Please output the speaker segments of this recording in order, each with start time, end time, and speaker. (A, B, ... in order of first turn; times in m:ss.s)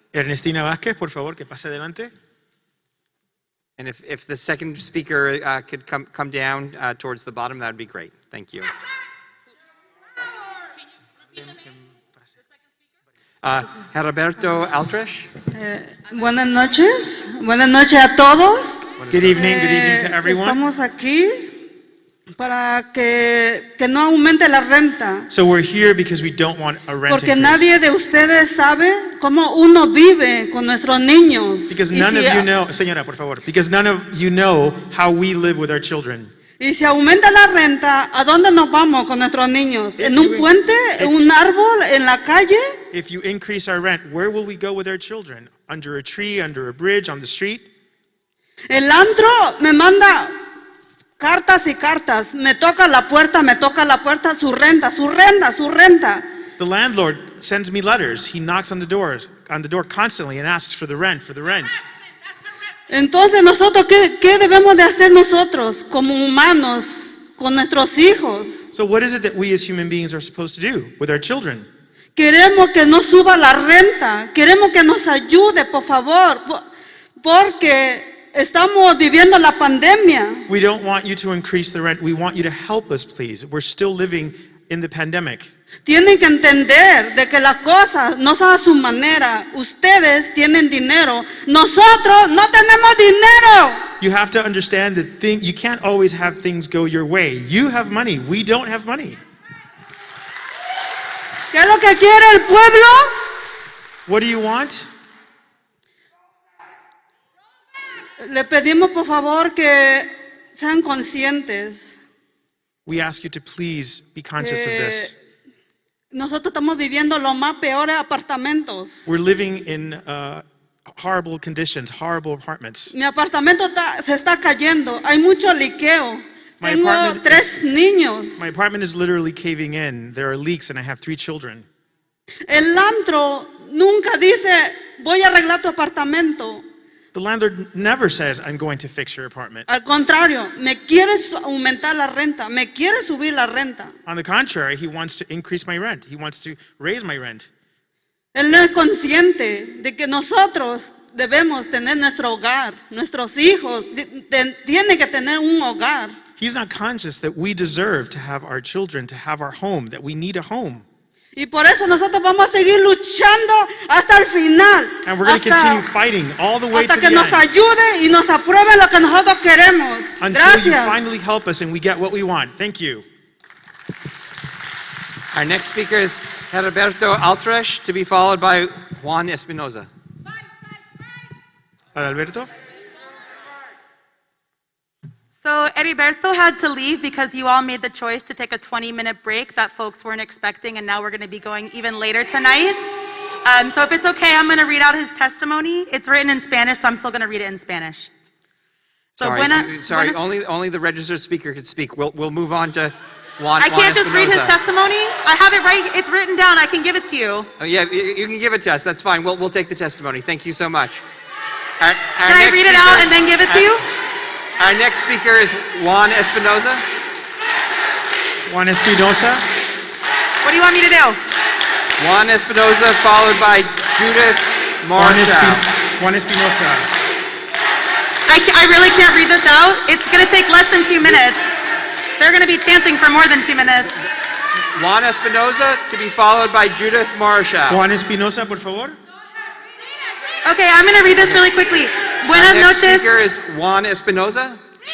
0:00.1-0:02.1 A
0:03.8-0:08.7 B
0:13.4-0:15.3 B
0:15.5-0:21.6 C
0:19.0-0:19.6 B
0:19.1-0:20.6 A
0:22.4-0:25.3 C
0:25.3-0:27.7 A
0:27.1-0:32.5 C
0:31.7-0:36.3 A
0:36.6-0:42.8 C
0:40.0-0:41.1 A
0:42.9-0:47.6 A
0:48.7-0:50.4 C
0:51.2-0:56.2 C
0:56.6-1:01.8 A
1:02.9-1:08.7 C
1:08.7-1:11.7 A
1:12.2-1:16.7 C
1:17.2-1:20.4 C
1:20.5-1:25.5 A
1:25.8-1:33.8 C
1:34.0-1:39.2 A
1:41.5-1:43.1 C
1:44.0-1:44.9 A
1:48.2-1:52.0 C
1:52.8-1:55.1 A
1:54.4-1:55.1 C
1:56.1-1:59.1 C
1:59.1-2:02.9 A
2:02.9-2:08.4 C
2:06.6-2:07.6 A
2:08.4-2:11.6 A
2:12.5-2:16.6 C
2:17.1-2:19.7 A
2:19.7-2:23.9 C
2:24.0-2:27.5 A
2:28.3-2:36.2 C
2:36.4-2:40.8 A
2:41.4-2:45.8 C
2:45.0-2:47.5 A
2:46.7-2:51.0 C
2:50.2-2:53.0 A
2:55.3-2:59.9 B
3:01.9-3:02.5 A
3:05.3-3:12.8 D
3:13.4-3:18.1 D
3:19.2-3:20.2 D
3:19.2-3:24.6 B
3:23.6-3:27.5 D
3:27.6-3:31.0 B
3:31.8-3:33.7 B
3:32.2-3:33.8 D
3:34.6-3:36.8 B
3:38.5-3:39.4 A
3:40.4-3:41.2 D
3:42.0-3:45.6 B
3:45.0-3:46.9 A
3:48.3-3:51.6 D
3:52.2-3:54.0 D
3:54.7-3:57.8 B
3:57.7-3:59.0 A
4:00.4-4:03.1 D
4:02.3-4:04.6 B